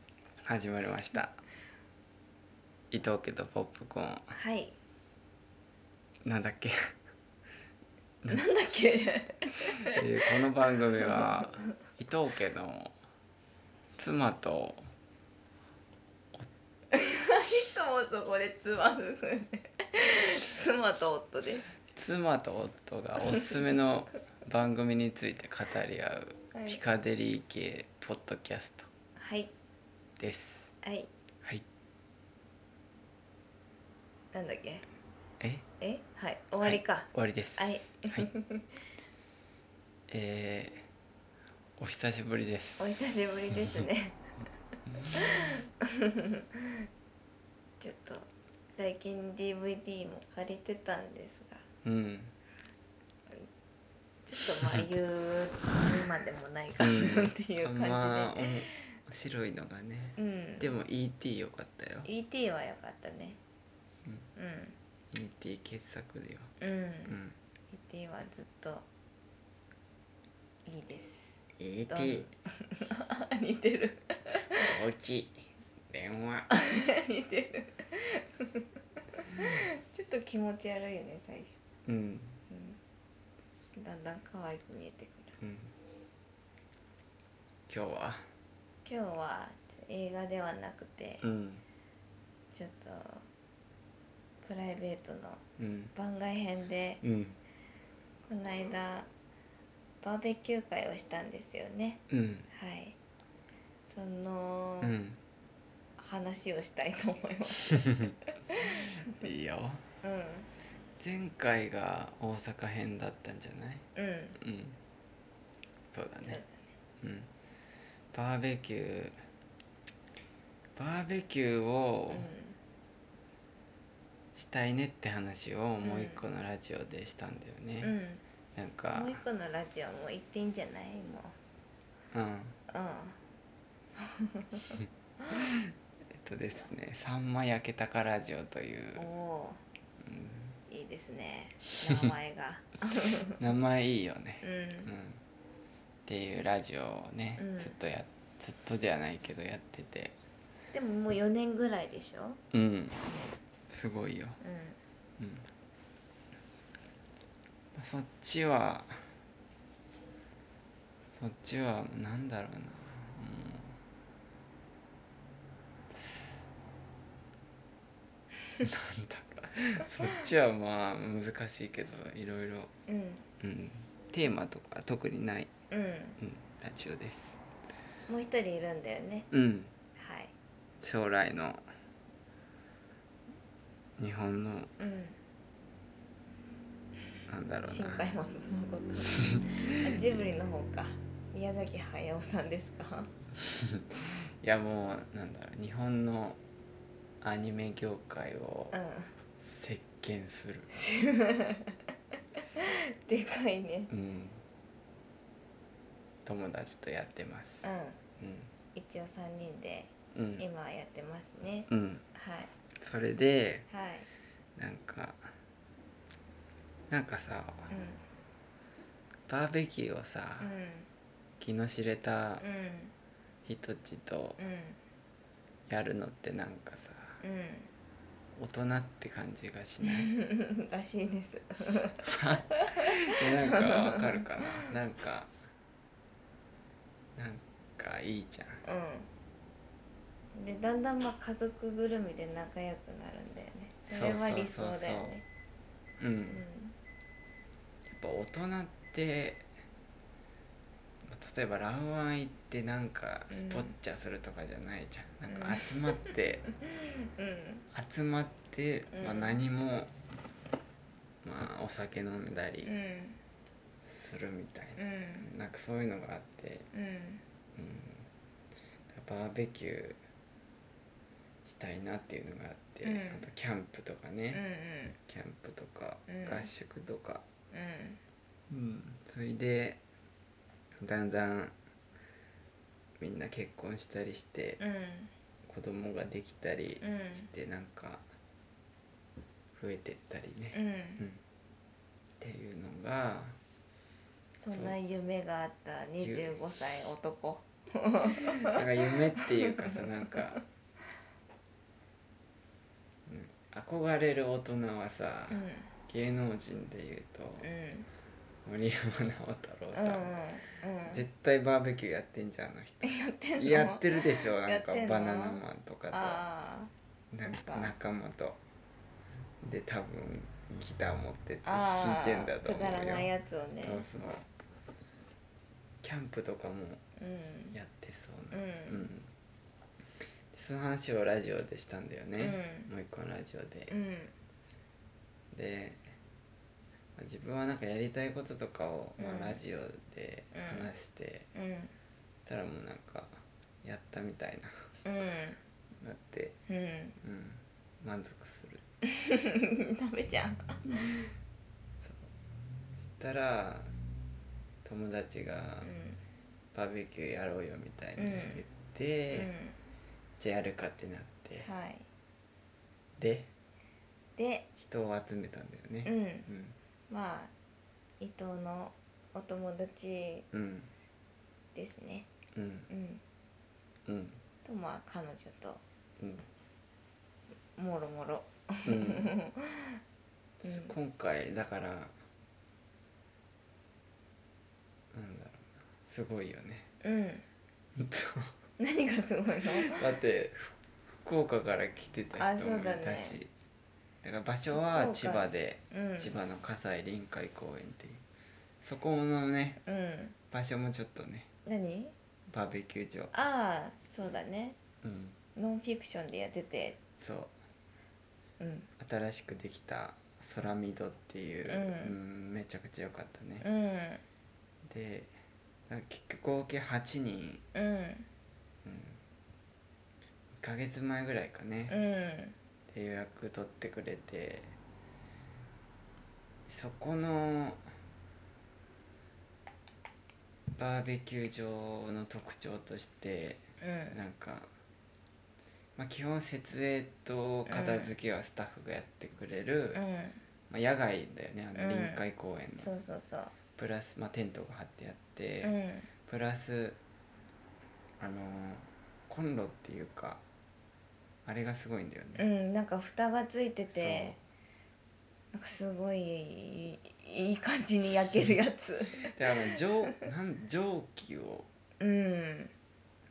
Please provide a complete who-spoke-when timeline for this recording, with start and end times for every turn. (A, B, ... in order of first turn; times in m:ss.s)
0:00.4-0:01.4 A
0:02.9-0:04.3 A
0:04.3-0:04.8 B
0:06.2-0:06.7 A
0:08.3-0:10.0 B
0:09.9-0:13.0 A
0:11.0-0:11.5 B
0:14.0-0:14.8 A
0:16.9-0:21.6 B
0:21.9-0:28.9 A
0:26.5-0:26.8 B
0:29.2-0:29.5 B
0:30.2-0:30.7 A
0:30.8-0:31.1 B
0:34.3-0:34.8 B
0:35.4-0:35.6 A
0:35.8-0:38.7 B
0:36.6-0:38.3 A
0:40.1-0:40.9 A
0:41.8-0:43.0 A
0:42.8-0:44.2 B
0:45.1-0:46.6 B
0:47.8-0:51.6 B
0:51.8-0:52.3 A
0:54.2-0:58.4 B
0:56.8-1:02.1 A
1:00.2-1:00.7 B
1:02.0-1:03.4 B
1:04.4-1:04.7 B
1:05.1-1:06.5 A
1:06.6-1:07.2 B
1:07.1-1:07.4 A
1:07.7-1:08.8 B
1:10.6-1:11.3 B
1:11.6-1:12.3 A
1:11.9-1:14.6 B
1:14.5-1:16.5 A
1:16.5-1:18.6 B
1:19.2-1:21.6 B
1:21.8-1:22.4 A
1:22.5-1:22.8 B
1:23.8-1:25.3 B
1:25.4-1:25.7 A
1:27.7-1:28.2 A
1:28.8-1:31.2 B
1:31.2-1:31.6 A
1:32.5-1:33.2 B
1:34.4-1:35.4 B
1:35.6-1:35.9 A
1:35.9-1:37.0 B
1:37.0-1:37.4 A
1:38.3-1:39.1 B
1:40.0-1:43.0 B
1:42.1-1:42.5 A
1:43.9-1:44.9 B
1:44.8-1:45.2 A
1:46.0-1:49.0 B
1:49.2-1:49.8 A
1:50.0-1:50.5 B
1:51.0-1:53.8 A
1:54.0-1:54.4 B
1:54.4-1:54.8 A
1:55.9-1:56.4 A
1:56.3-1:56.6 B
1:57.0-1:57.3 A
1:58.1-1:59.2 A
2:00.8-2:02.3 A
2:02.1-2:02.6 B
2:04.3-2:07.9 A
2:05.8-2:06.2 B
2:07.8-2:08.2 B
2:08.5-2:09.2 A
2:08.9-2:11.3 B
2:12.1-2:12.6 A
2:12.7-2:13.2 B
2:14.0-2:15.4 B
2:16.1-2:19.1 A
2:19.0-2:19.6 B
2:20.0-2:20.6 A
2:20.7-2:23.3 B
2:23.4-2:25.2 A
2:24.4-2:24.9 B
2:26.0-2:30.1 A
2:27.4-2:27.8 B
2:30.7-2:32.4 B
2:32.5-2:33.1 A
2:33.7-2:34.4 A
2:34.4-2:34.8 B
2:35.2-2:35.5 A
2:37.7-2:39.1 A
2:41.1-2:43.8 A
2:45.9-2:46.4 A
2:48.6-2:52.7 A
2:52.9-2:53.2 B
2:53.4-2:55.5 A
2:55.7-2:56.2 B
2:56.2-2:57.4 A
2:58.1-2:59.3 B
2:59.3-2:59.7 A
3:00.0-3:00.3 B
3:00.8-3:01.6 A
3:04.0-3:04.7 A
3:04.8-3:05.2 B
3:07.3-3:08.2 A
3:07.6-3:13.1 B
3:09.2-3:10.0 A
3:13.6-3:16.4 A
3:17.2-3:18.8 A
3:18.7-3:19.1 B
3:19.4-3:20.7 A
3:20.7-3:21.8 B
3:22.6-3:23.9 B
3:23.9-3:24.4 A
3:26.2-3:27.6 A
3:27.6-3:28.0 B
3:28.2-3:28.5 A
3:28.6-3:32.5 B
3:30.1-3:30.4 A
3:31.7-3:32.0 A
3:32.8-3:33.6 A
3:33.7-3:34.1 B
3:34.6-3:35.3 A
3:36.9-3:37.7 A
3:37.7-3:38.0 B
3:39.3-3:40.5 A
3:40.4-3:40.9 B
3:41.4-3:42.4 A
3:42.4-3:42.9 B
3:43.4-3:44.4 A
3:44.4-3:44.8 B
3:45.7-3:47.2 A
3:47.2-3:47.7 B
3:48.4-3:50.1 A
3:49.8-3:54.4 B
3:52.1-3:55.3 A
3:57.2-3:58.6 A
3:58.6-3:59.1 B
4:00.3-4:05.2 B
4:03.9-4:05.2 A
4:06.0-4:06.4 A
4:06.3-4:06.7 B
4:07.9-4:09.5 A
4:11.1-4:16.5 A
4:13.3-4:13.7 B
4:15.3-4:16.1 B
4:16.7-4:17.6 B
4:17.7-4:19.9 A
4:18.9-4:19.4 B
4:21.2-4:22.7 A
4:22.6-4:23.2 B
4:23.8-4:26.7 A
4:24.8-4:25.3 B
4:26.7-4:27.2 B
4:27.5-4:28.1 A
4:28.9-4:30.0 A
4:31.4-4:34.4 A
4:32.8-4:33.3 B
4:34.3-4:35.0 B
4:35.1-4:37.2 A
4:36.1-4:36.5 B
4:37.5-4:38.0 B
4:38.5-4:39.8 A
4:40.8-4:41.5 A
4:43.0-4:44.6 A
4:44.6-4:45.1 B
4:45.4-4:48.0 A
4:46.8-4:47.3 B
4:49.5-4:51.2 A
4:50.5-4:51.0 B
4:52.2-4:53.4 A
4:54.4-4:58.5 B
4:54.5-4:54.8 A
4:56.0-4:56.3 A
4:58.4-5:00.4 A
4:59.4-5:00.2 B
5:03.1-5:07.5 A
5:05.3-5:05.7 B
5:07.4-5:07.9 B
5:08.4-5:10.1 A
5:09.7-5:11.0 B
5:10.9-5:16.2 A
5:12.8-5:15.4 B
5:15.9-5:16.7 B
5:17.1-5:18.4 A
5:17.2-5:17.7 B
5:19.4-5:23.1 A
5:21.4-5:23.8 B
5:23.6-5:24.2 A
5:25.8-5:26.8 A
5:27.0-5:27.6 B
5:27.5-5:29.1 A
5:28.3-5:28.9 B
5:30.3-5:33.7 A
5:32.2-5:32.7 B
5:33.7-5:34.1 B
5:35.3-5:35.8 A
5:37.0-5:41.3 A
5:39.0-5:39.4 B
5:40.3-5:40.7 B
5:41.3-5:41.7 B
5:42.2-5:44.6 A
5:44.8-5:45.4 B
5:45.8-5:46.4 A
5:46.5-5:47.0 B
5:47.0-5:48.6 A
5:49.0-5:51.0 B
5:51.8-5:52.1 A
5:52.9-5:53.7 A
5:54.6-5:55.7 A
5:55.6-5:56.0 B
5:56.5-5:59.3 A
5:58.0-5:58.4 B
5:59.1-5:59.5 B
6:00.2-6:01.5 A
6:01.4-6:01.8 B
6:03.0-6:03.3 A
6:04.2-6:04.5 B
6:04.6-6:06.6 A
6:05.8-6:06.3 B
6:06.9-6:07.3 B
6:08.0-6:10.2 B
6:10.3-6:10.7 A
6:11.5-6:12.1 B
6:12.3-6:12.7 A
6:12.7-6:13.0 B
6:13.9-6:14.2 A
6:14.4-6:15.6 B
6:16.0-6:16.2 A
6:17.6-6:19.8 B
6:18.6-6:19.1 A
6:20.4-6:21.9 A
6:20.4-6:20.7 B
6:24.9-6:26.7 A
6:26.8-6:27.2 B
6:27.8-6:28.3 A
6:28.6-6:29.8 B
6:29.6-6:33.3 A
6:32.1-6:33.2 B
6:34.0-6:38.0 A
6:34.5-6:36.1 B
6:38.6-6:39.6 A
6:39.6-6:40.1 B
6:40.3-6:41.3 A
6:41.4-6:41.9 B
6:42.3-6:43.1 A
6:43.1-6:44.6 B
6:44.8-6:45.2 A
6:45.4-6:46.8 B
6:47.0-6:47.3 A
6:48.4-6:48.7 B
6:48.8-6:53.4 A
6:51.4-6:51.9 B
6:53.4-6:54.0 B
6:54.6-6:55.1 A
6:55.7-6:57.4 A
6:57.5-6:58.1 B
6:58.6-6:59.0 A
7:00.4-7:01.8 A
7:01.7-7:02.3 B
7:02.7-7:04.5 A
7:06.5-7:07.6 A
7:10.6-7:14.5 A
7:13.6-7:14.0 B
7:15.8-7:19.8 A
7:17.5-7:17.9 B
7:19.7-7:20.2 B
7:20.5-7:22.7 A
7:21.5-7:22.0 B
7:22.6-7:23.3 B
7:23.6-7:25.5 A
7:25.4-7:25.9 B
7:26.1-7:26.8 A
7:28.0-7:30.2 A
7:31.2-7:32.2 A
7:32.2-7:34.2 B
7:33.7-7:34.2 A
7:35.3-7:39.1 B
7:39.1-7:41.5 A
7:41.8-7:42.5 B